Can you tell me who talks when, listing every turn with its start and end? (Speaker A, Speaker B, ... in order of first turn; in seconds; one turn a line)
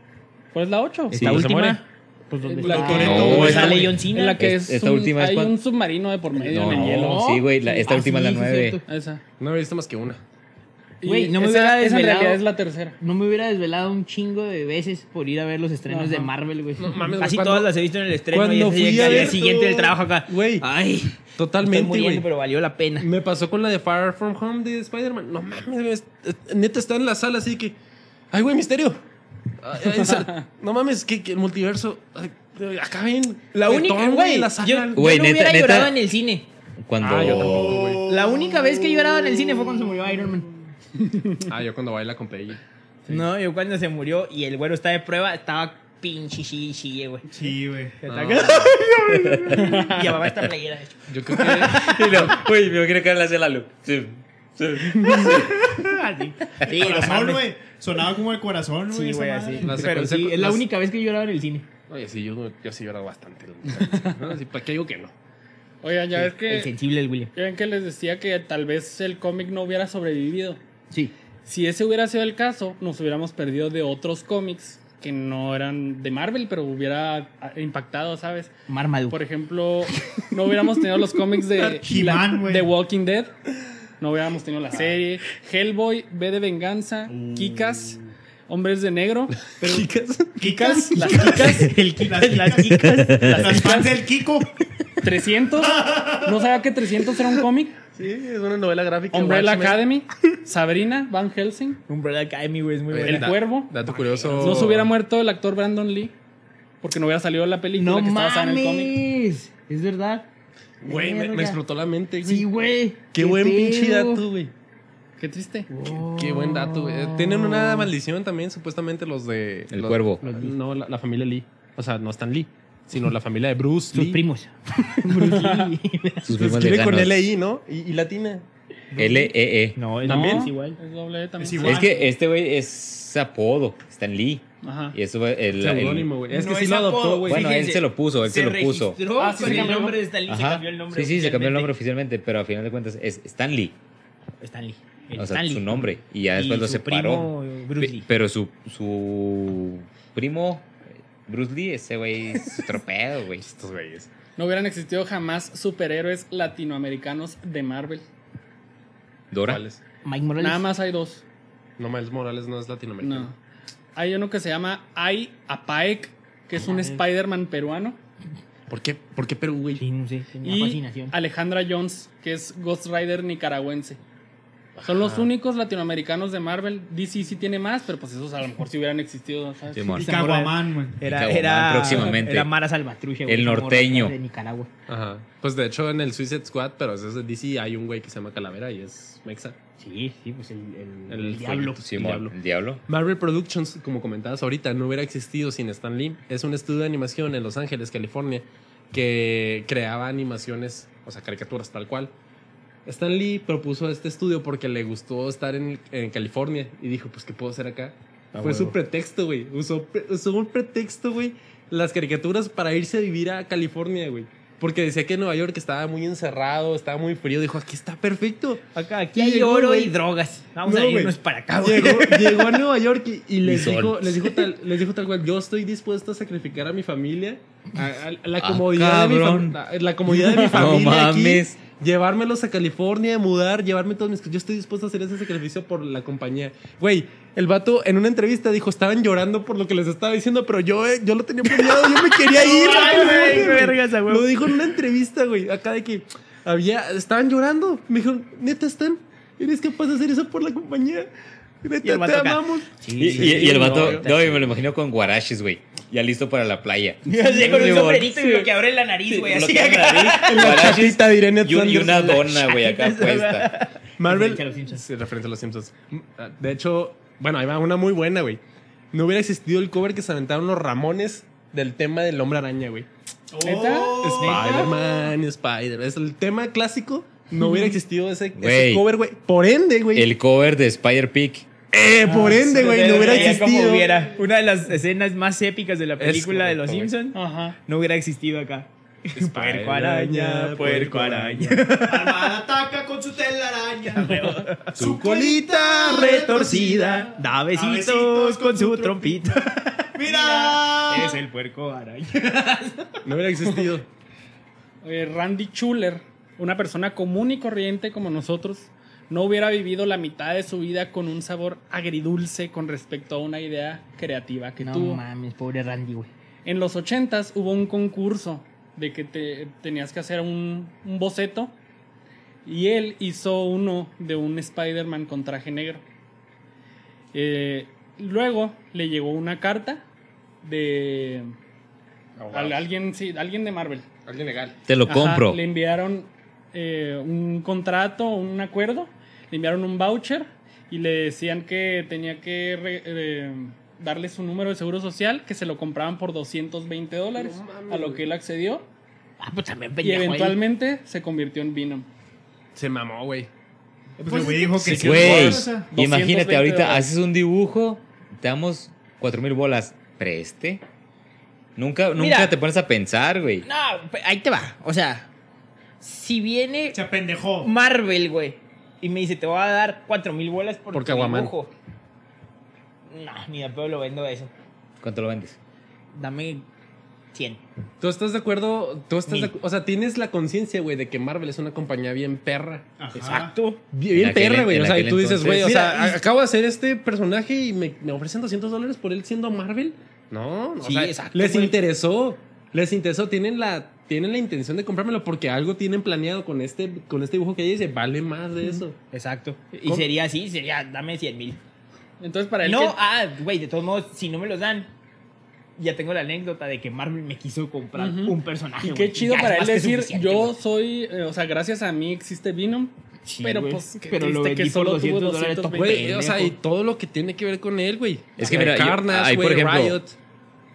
Speaker A: 0.5-1.4
Speaker B: 1.1-1.5
Speaker C: 1.1-4.4
Speaker D: 1.1-1.8
Speaker A: 2.4-7.2
Speaker D: 2.6-4.0
Speaker B: 3.0-5.5
Speaker C: 6.4-8.8
Speaker B: 6.5-8.8
Speaker D: 6.6-7.2
Speaker A: 8.9-9.2
Speaker D: 9.4-10.2
Speaker A: 11.0-13.0
Speaker C: 11.0-12.4
Speaker C: 13.0-23.1
Speaker A: 15.9-16.3
Speaker D: 16.8-17.7
Speaker D: 18.3-20.6
Speaker D: 21.4-22.3
Speaker D: 23.0-27.8
Speaker D: 28.3-29.0
Speaker D: 29.6-35.1
Speaker C: 33.5-36.5
Speaker B: 34.9-36.0
Speaker B: 36.8-37.9
Speaker D: 37.0-38.0
Speaker E: 37.2-40.7
Speaker C: 38.1-40.5
Speaker A: 41.0-41.5
Speaker D: 41.5-42.6
Speaker C: 43.1-47.3
Speaker E: 47.3-48.0
Speaker C: 48.0-52.4
Speaker D: 48.1-48.7
Speaker B: 49.1-49.6
Speaker A: 49.5-50.2
Speaker D: 51.1-52.2
Speaker B: 51.6-55.5
Speaker C: 55.0-57.5
Speaker E: 56.6-59.7
Speaker C: 58.9-61.7
Speaker D: 59.6-60.6
Speaker D: 61.9-65.1
Speaker A: 63.8-64.2
Speaker A: 65.8-66.7
Speaker C: 66.4-67.3
Speaker A: 67.3-70.6
Speaker A: 71.4-78.5
Speaker C: 78.7-79.2
Speaker A: 79.1-83.3
Speaker C: 80.0-80.6
Speaker E: 81.5-82.7
Speaker A: 84.0-89.5
Speaker E: 87.1-88.0
Speaker D: 89.4-91.5
Speaker E: 90.4-94.6
Speaker A: 90.9-91.7
Speaker C: 91.1-93.8
Speaker B: 93.0-93.4
Speaker A: 93.4-94.0
Speaker A: 95.0-97.8
Speaker E: 95.6-96.5
Speaker D: 97.9-99.8
Speaker A: 99.1-101.8
Speaker C: 101.9-104.7
Speaker D: 102.9-104.9
Speaker A: 103.0-103.8
Speaker A: 104.4-106.1
Speaker A: 106.8-109.0
Speaker C: 107.8-110.3
Speaker C: 110.8-111.6
Speaker D: 110.8-112.5
Speaker C: 112.2-114.2
Speaker D: 113.1-114.5
Speaker A: 115.2-115.7
Speaker C: 115.7-117.9
Speaker D: 115.9-124.2
Speaker B: 119.7-120.2
Speaker C: 120.2-120.5
Speaker C: 123.9-126.3
Speaker A: 125.2-125.7
Speaker B: 126.2-127.2
Speaker D: 126.3-128.4
Speaker B: 128.9-129.8
Speaker C: 129.8-130.8
Speaker A: 130.0-131.9
Speaker D: 130.1-130.5
Speaker E: 131.4-132.1
Speaker B: 131.6-136.1
Speaker A: 134.6-135.0
Speaker D: 135.6-137.5
Speaker C: 136.3-141.7
Speaker B: 137.3-139.0
Speaker A: 139.1-140.0
Speaker D: 139.4-139.8
Speaker B: 140.3-143.8
Speaker C: 144.4-148.1
Speaker B: 145.2-150.7
Speaker B: 151.2-153.4
Speaker D: 153.4-154.1
Speaker A: 154.3-158.0
Speaker B: 159.3-159.6
Speaker D: 159.4-159.8
Speaker C: 160.0-160.7
Speaker A: 160.4-161.2
Speaker D: 161.8-163.3
Speaker A: 163.0-163.3
Speaker A: 163.9-168.0
Speaker C: 166.6-167.0
Speaker D: 168.7-169.8
Speaker C: 169.8-171.2
Speaker A: 170.4-174.0
Speaker D: 174.8-175.3
Speaker A: 174.8-180.0
Speaker B: 179.7-180.1
Speaker C: 179.9-184.7
Speaker E: 180.0-181.0
Speaker B: 181.0-182.5
Speaker B: 183.3-184.1
Speaker D: 184.9-189.6
Speaker C: 189.8-191.8
Speaker D: 191.1-192.3
Speaker B: 191.8-192.8
Speaker D: 192.9-202.1
Speaker D: 202.8-219.9
Speaker C: 208.3-208.8
Speaker C: 218.7-222.6
Speaker D: 220.6-251.1
Speaker B: 223.4-224.3
Speaker B: 228.4-229.6
Speaker B: 230.3-231.6
Speaker C: 241.7-244.3
Speaker E: 242.3-243.7
Speaker D: 251.6-254.0
Speaker C: 251.8-254.6
Speaker B: 253.0-258.5
Speaker C: 257.0-260.7
Speaker D: 257.4-257.9
Speaker B: 259.1-263.5
Speaker D: 260.1-262.2
Speaker C: 262.0-264.8
Speaker D: 264.0-268.4
Speaker D: 268.9-272.9
Speaker E: 273.3-274.9
Speaker A: 273.4-274.7
Speaker D: 274.0-280.1
Speaker C: 274.2-274.7
Speaker B: 278.3-278.9
Speaker B: 279.9-281.5
Speaker D: 281.7-284.0
Speaker C: 282.0-292.3
Speaker E: 282.5-284.2
Speaker D: 286.0-286.9
Speaker A: 287.1-287.6
Speaker D: 289.1-291.6
Speaker E: 291.7-301.2
Speaker C: 293.9-294.8
Speaker D: 294.8-297.0
Speaker C: 295.8-302.9
Speaker D: 303.0-303.9
Speaker A: 304.8-315.0
Speaker C: 314.6-316.1
Speaker A: 316.4-321.5
Speaker A: 322.4-325.8
Speaker A: 327.1-329.8
Speaker A: 330.4-331.3
Speaker D: 332.2-332.7
Speaker A: 332.3-333.9
Speaker D: 334.1-334.6
Speaker B: 334.7-335.4
Speaker A: 334.9-348.7
Speaker D: 347.1-348.0
Speaker C: 349.2-350.4
Speaker A: 349.8-351.9
Speaker D: 352.6-353.3
Speaker E: 354.0-355.7
Speaker C: 354.0-354.4
Speaker A: 354.1-354.5
Speaker D: 354.5-355.5
Speaker B: 354.6-360.6
Speaker A: 355.7-356.9
Speaker B: 361.6-363.4
Speaker C: 361.9-362.3
Speaker C: 363.4-365.1
Speaker C: 365.8-366.8
Speaker E: 366.7-367.5
Speaker C: 367.4-371.5
Speaker D: 370.7-371.3
Speaker C: 372.9-374.3
Speaker B: 374.8-375.4
Speaker C: 375.9-376.5
Speaker C: 377.1-377.4
Speaker D: 377.8-382.6
Speaker C: 379.1-379.3
Speaker E: 382.8-383.3
Speaker C: 382.9-383.6
Speaker D: 383.7-398.8
Speaker B: 383.9-385.6
Speaker C: 385.4-386.0
Speaker C: 390.6-391.6
Speaker C: 398.9-401.4
Speaker A: 402.0-402.8
Speaker C: 402.4-404.7
Speaker C: 405.6-410.3
Speaker A: 407.8-415.9
Speaker C: 413.0-416.4
Speaker D: 415.5-419.9
Speaker B: 418.2-419.8